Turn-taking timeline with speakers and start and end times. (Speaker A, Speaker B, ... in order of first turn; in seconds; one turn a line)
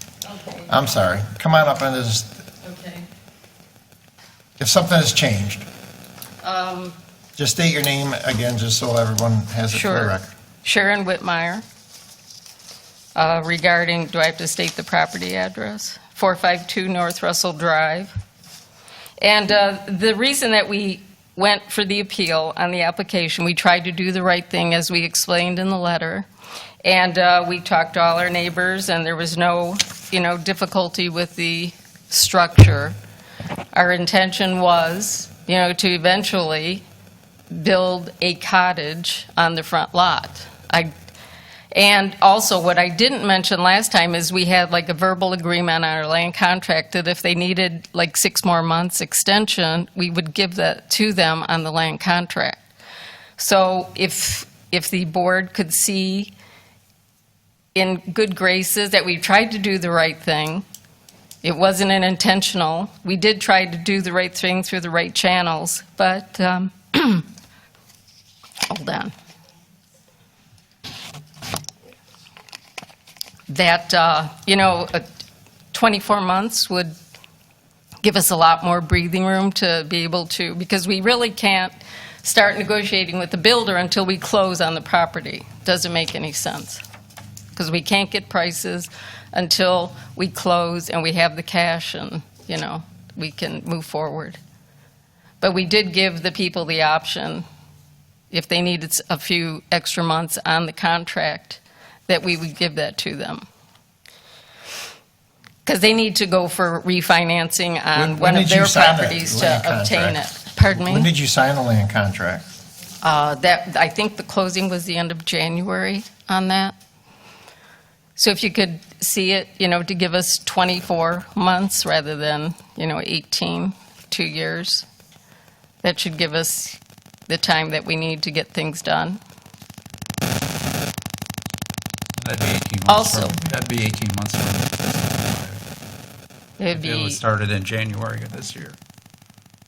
Speaker A: 0.2-0.8
Speaker B: 0.7-2.4
Speaker A: 2.6-3.1
Speaker B: 4.6-5.6
Speaker A: 6.4-7.0
Speaker B: 7.3-10.3
Speaker A: 9.7-11.6
Speaker A: 13.2-18.1
Speaker A: 19.2-26.3
Speaker A: 26.8-33.0
Speaker A: 33.7-36.8
Speaker A: 37.5-40.9
Speaker A: 41.7-52.6
Speaker A: 53.4-56.3
Speaker A: 57.7-60.6
Speaker A: 61.4-67.3
Speaker A: 68.7-69.1
Speaker A: 73.5-75.0
Speaker A: 75.7-76.9
Speaker A: 78.0-86.8
Speaker A: 87.5-94.4
Speaker A: 95.4-97.4
Speaker A: 98.3-103.4
Speaker A: 105.6-111.1
Speaker B: 107.9-112.4
Speaker A: 113.0-116.7
Speaker A: 118.2-124.8
Speaker A: 125.8-129.2
Speaker C: 132.2-135.6
Speaker A: 132.9-133.4
Speaker A: 136.6-137.2
Speaker C: 136.7-138.8